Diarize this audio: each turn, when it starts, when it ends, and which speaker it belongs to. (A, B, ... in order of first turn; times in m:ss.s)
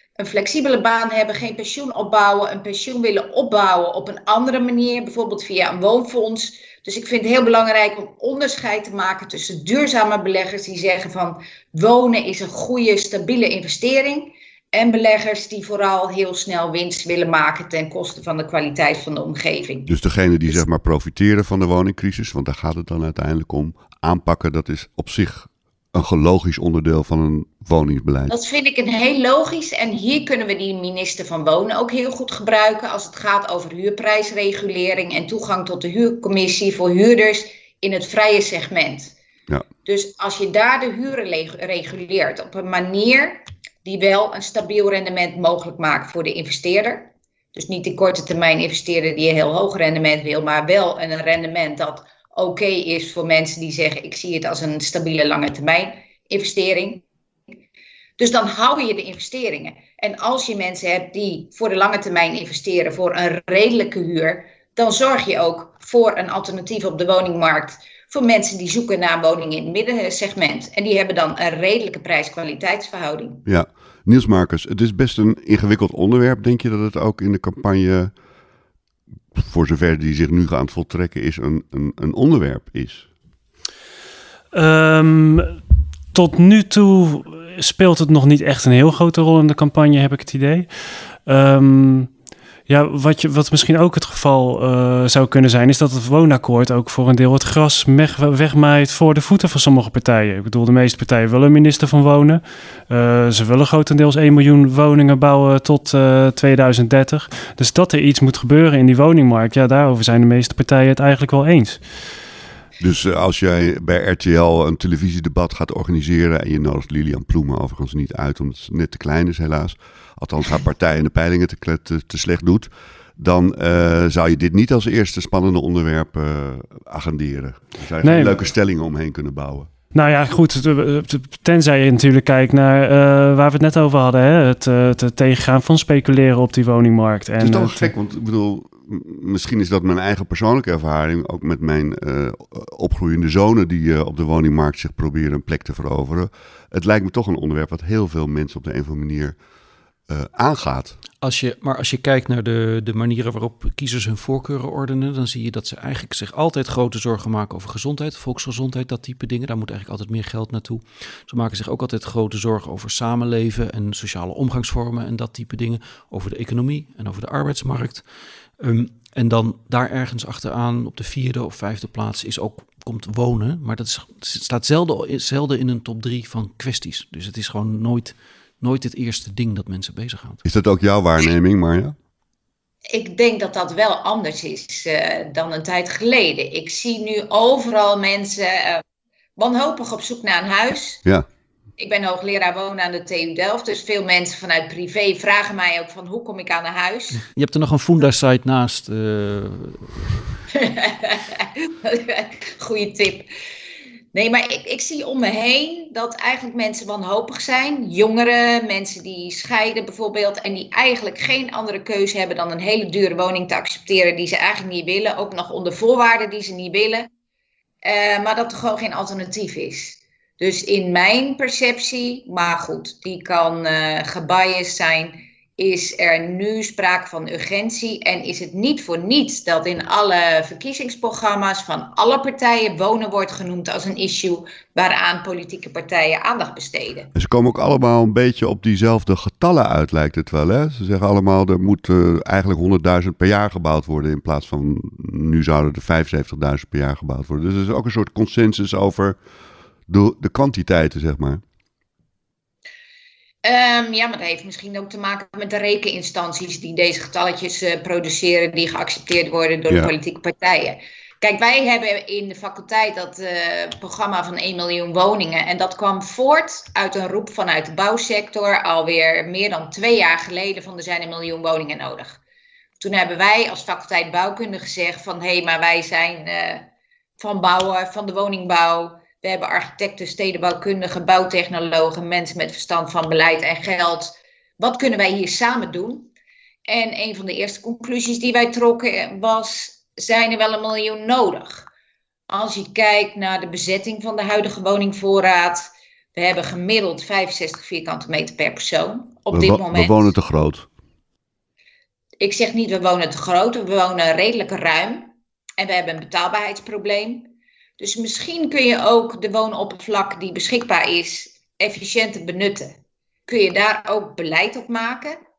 0:00.2-0:19.9 A
0:19.8-0:28.3 B
0:28.3-0:39.1 A
0:39.8-0:57.0 A
0:58.2-1:13.4 A
1:13.4-1:18.1 B
1:19.3-1:23.1 B
1:24.5-1:25.6 C
1:26.1-1:30.7 C
1:31.2-1:32.1 C
1:32.7-1:51.8 C
1:52.8-2:09.7 B
2:08.0-2:08.4 C
2:09.9-2:17.9 C
2:17.4-2:29.4 B
2:30.1-2:31.0 B
2:31.2-2:48.0 D
2:48.6-3:00.4 D
3:00.4-3:02.0 B
3:02.9-3:08.8 A
3:09.4-3:11.0 A
3:11.8-3:17.2 A
3:17.3-3:20.2 D
3:20.5-3:23.3 A
3:24.1-3:37.1 A
3:37.8-3:57.1 A
3:57.1-4:09.2 B
4:09.9-4:11.4 B
4:13.4-4:32.2 A
4:32.8-4:36.7 A
4:37.2-4:46.1 A
4:46.7-4:51.7 A
4:52.3-5:00.1 A
4:59.3-5:00.7 B
5:02.2-5:12.7 A
5:13.3-5:15.2 A